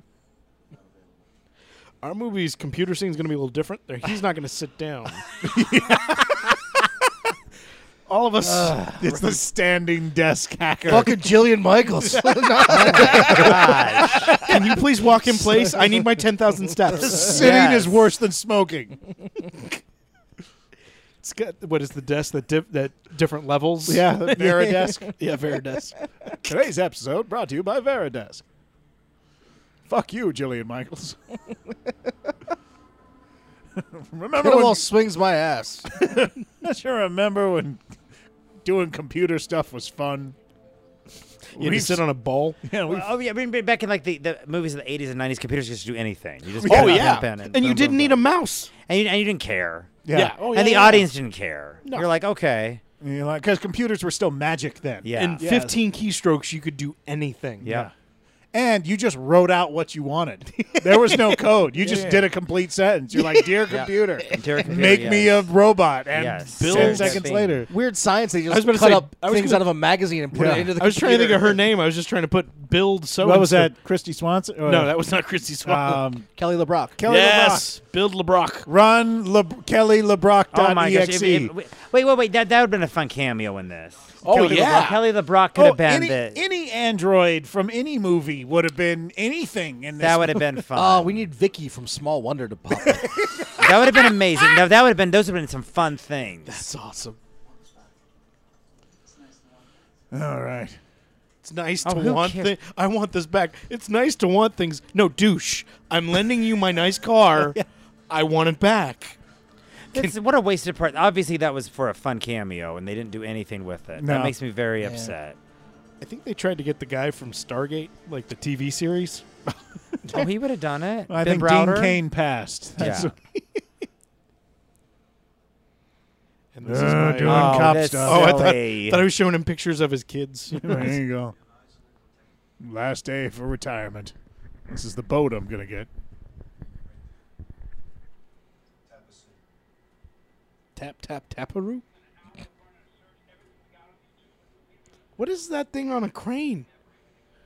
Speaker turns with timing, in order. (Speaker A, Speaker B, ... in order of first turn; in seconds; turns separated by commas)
Speaker A: 2.0-5.2, Speaker B: 5.4-6.6, Speaker A: 8.1-9.0, Speaker C: 8.4-9.2, Speaker B: 9.0-11.5, Speaker C: 10.9-14.8, Speaker A: 12.1-17.4, Speaker D: 12.7-14.4, Speaker C: 15.5-16.0, Speaker B: 17.1-19.0, Speaker D: 17.2-18.1, Speaker A: 21.2-25.9, Speaker B: 23.9-25.1, Speaker B: 26.4-28.4, Speaker B: 29.9-31.2, Speaker B: 33.9-34.9, Speaker C: 34.4-35.9, Speaker B: 36.0-37.8, Speaker B: 38.6-40.4, Speaker B: 41.6-42.0, Speaker A: 41.6-42.6, Speaker B: 42.6-43.1, Speaker D: 42.9-48.2, Speaker B: 46.6-47.1, Speaker A: 46.6-48.7, Speaker D: 48.8-52.8, Speaker B: 50.0-50.4, Speaker A: 50.1-51.1, Speaker B: 53.0-55.8, Speaker D: 55.0-55.4, Speaker A: 55.1-57.7, Speaker D: 57.6-57.9, Speaker B: 57.6-57.9, Speaker B: 58.5-67.7, Speaker A: 61.8-62.3, Speaker D: 63.7-65.5, Speaker D: 66.1-67.6, Speaker A: 66.6-67.3, Speaker C: 67.7-71.6, Speaker A: 68.5-69.7, Speaker B: 70.3-70.7, Speaker A: 70.7-73.7, Speaker B: 73.2-74.9, Speaker A: 74.6-76.1, Speaker B: 75.7-76.3, Speaker C: 76.3-77.0, Speaker B: 77.0-77.7, Speaker A: 77.0-78.7, Speaker B: 78.7-81.5, Speaker D: 80.5-86.4, Speaker A: 84.2-85.0, Speaker B: 84.3-84.9, Speaker B: 85.5-90.4, Speaker D: 90.0-91.2, Speaker C: 90.7-93.2, Speaker D: 93.6-96.6, Speaker A: 96.5-97.2, Speaker B: 100.1-100.8, Speaker A: 101.4-107.6, Speaker D: 101.8-102.5, Speaker A: 108.1-109.2, Speaker D: 109.9-115.4, Speaker B: 114.0-114.3, Speaker C: 114.8-115.1, Speaker A: 116.0-119.2, Speaker D: 120.1-122.0, Speaker B: 121.1-123.1, Speaker D: 122.8-123.1, Speaker A: 126.5-131.0, Speaker B: 126.6-128.5, Speaker D: 127.2-129.1, Speaker B: 130.5-131.3, Speaker B: 132.6-134.1, Speaker B: 134.7-135.9, Speaker A: 140.8-141.8, Speaker A: 145.2-146.7